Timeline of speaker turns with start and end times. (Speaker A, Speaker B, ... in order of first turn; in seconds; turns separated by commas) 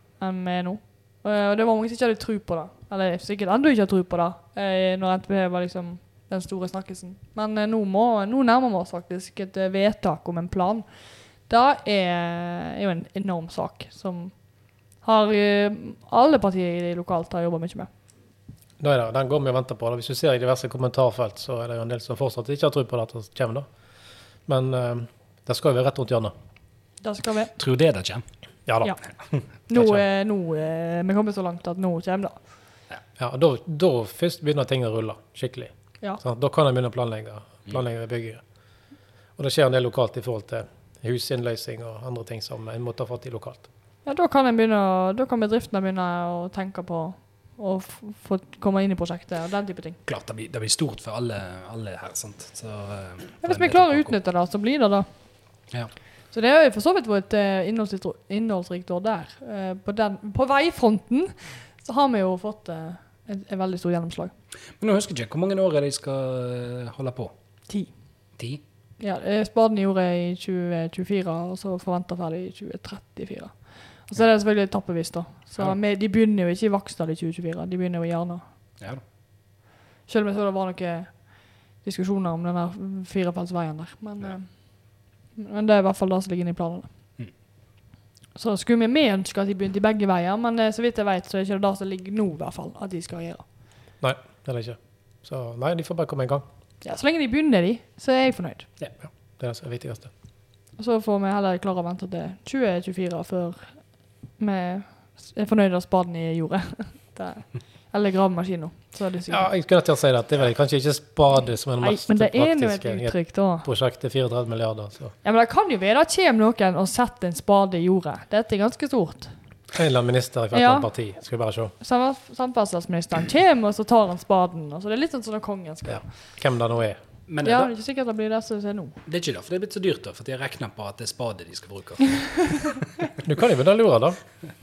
Speaker A: 0.2-10.8, Speaker A: 11.5-14.3, Speaker A: 15.0-17.9, Speaker B: 18.8-23.7, Speaker B: 24.5-26.3, Speaker A: 27.0-27.5, Speaker C: 27.6-28.2, Speaker B: 28.7-28.9, Speaker A: 29.7-32.4, Speaker B: 29.7-30.0, Speaker B: 33.2-38.4, Speaker B: 39.4-43.6, Speaker A: 44.0-50.0, Speaker C: 50.0-54.1, Speaker A: 53.4-55.1, Speaker A: 56.3-64.3, Speaker C: 64.8-67.3, Speaker C: 68.4-68.6, Speaker A: 69.0-78.4, Speaker A: 80.1-84.6, Speaker A: 85.3-86.9, Speaker A: 88.3-93.4, Speaker B: 94.0-96.4, Speaker A: 96.8-98.7, Speaker B: 99.4-100.1, Speaker A: 100.8-103.8, Speaker A: 104.4-109.5, Speaker B: 109.3-115.1, Speaker A: 111.8-113.7, Speaker A: 115.2-119.3, Speaker B: 119.7-121.7, Speaker A: 120.5-120.9, Speaker A: 121.8-126.0, Speaker B: 125.9-127.0, Speaker C: 127.3-127.7, Speaker A: 127.4-128.9, Speaker C: 129.1-132.8, Speaker B: 133.2-134.2